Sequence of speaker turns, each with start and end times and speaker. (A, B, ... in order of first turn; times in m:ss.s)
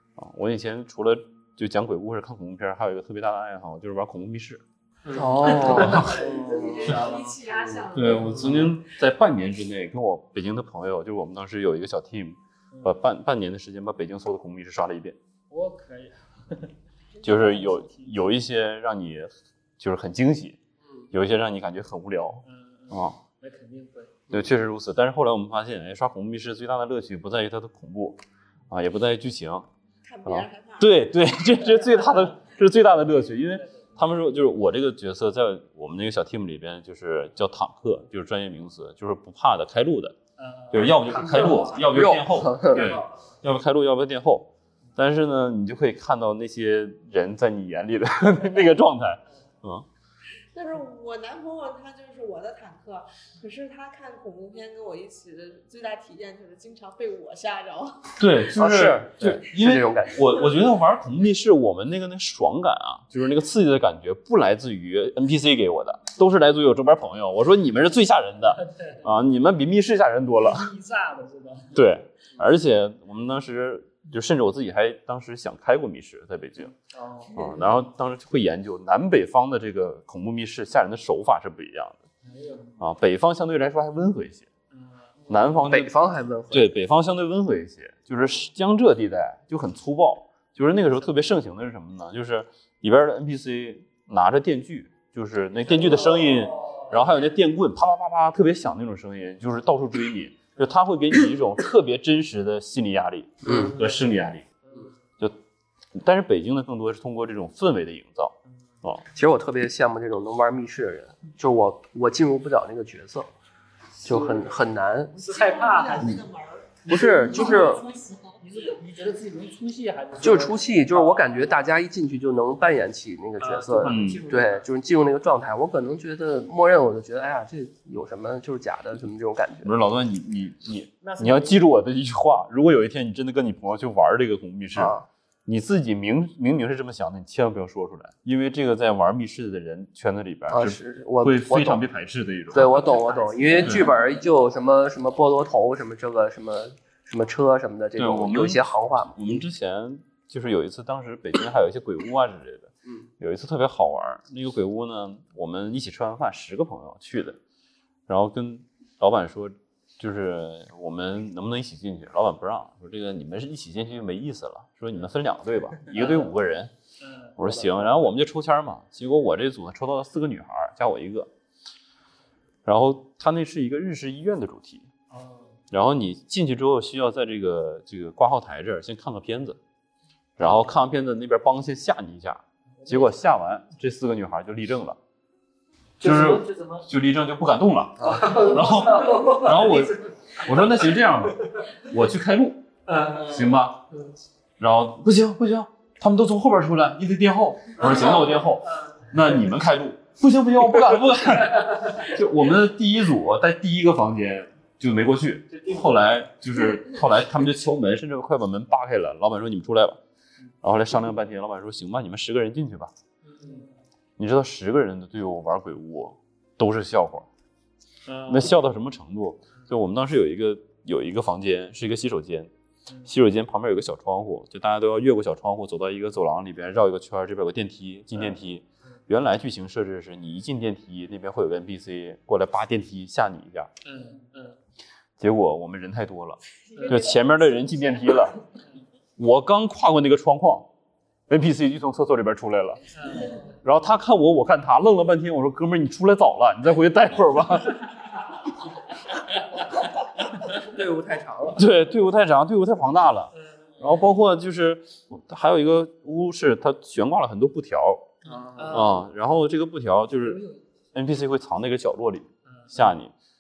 0:00.2-0:04.6 A
0:05.0-0:07.4 B
0:05.2-0:07.1 C
0:05.7-0:06.2 A
0:06.0-0:08.5 D
0:07.9-0:15.2 A
0:12.7-0:13.0 B
0:15.5-0:18.2 B
0:17.2-0:20.6 A
0:21.1-0:23.2 A
0:22.4-0:24.3 B
0:24.3-0:29.7 A
0:30.0-0:31.3 D
0:30.3-0:40.2 A
0:31.8-0:32.4 B
0:33.4-0:34.0 B
0:40.4-0:42.1 B
0:40.7-0:49.9 A
0:41.9-0:42.9 C
0:42.7-0:43.2 B
0:50.5-0:58.2 D
0:58.2-1:10.7 A
0:58.6-1:00.2 C
1:08.6-1:09.0 B
1:10.4-1:11.8 B
1:11.7-1:16.7 A
1:16.9-1:17.8 B
1:17.3-1:22.0 A
1:22.2-1:22.8 B
1:22.8-1:24.5 A
1:24.7-1:25.8 B
1:25.3-1:25.9 A
1:25.6-1:26.7 C
1:26.5-1:44.5 A
1:35.7-1:37.0 B
1:43.4-1:43.7 C
1:43.6-1:45.0 B
1:46.0-1:49.0 A
1:48.5-1:48.8 B
1:49.1-1:53.3 C
1:54.0-1:54.6 B
1:54.0-1:55.1 C
1:55.2-1:58.7 D
1:55.2-1:56.3 B
1:56.8-2:01.7 B
1:56.9-1:57.8 C
2:00.2-2:09.7 C
2:03.4-2:04.7 B
2:03.8-2:04.2 A
2:09.6-2:15.0 A
2:11.0-2:11.6 B
2:14.8-2:15.1 C
2:15.5-2:23.0 A
2:20.5-2:21.8 C
2:22.5-2:29.4 C
2:23.1-2:23.6 B
2:23.6-2:23.9 A
2:28.0-2:37.4 A
2:38.1-2:46.7 A
2:46.0-2:46.2 B
2:47.0-2:47.8 B
2:47.4-2:51.3 A
2:52.6-2:54.9 A
2:55.1-2:55.6 B
2:55.7-2:59.6 A
3:00.4-3:05.0 A
3:02.8-3:03.3 B
3:06.0-3:06.9 B
3:06.0-3:13.8 A
3:08.0-3:11.6 B
3:12.9-3:14.1 B
3:14.6-3:30.0 A
3:17.8-3:19.5 B
3:21.5-3:22.1 B
3:25.5-3:26.2 B
3:30.6-3:32.9 A
3:33.2-3:33.8 B
3:34.2-3:37.3 A
3:38.1-3:38.6 B
3:38.3-3:42.5 A
3:43.0-3:53.7 A
3:53.8-3:54.6 B
3:55.2-3:58.4 A
3:56.7-3:57.1 D
3:56.7-3:57.1 B
3:59.2-4:00.7 A
4:01.3-4:02.9 A
4:02.9-4:03.6 B
4:03.6-4:07.9 A
4:10.7-4:11.6 C
4:10.7-4:11.6 B
4:11.6-4:18.1 A
4:13.3-4:14.0 B
4:18.2-4:19.1 B
4:18.3-4:18.9 C
4:18.7-4:23.1 A
4:20.2-4:20.8 B
4:22.4-4:22.9 B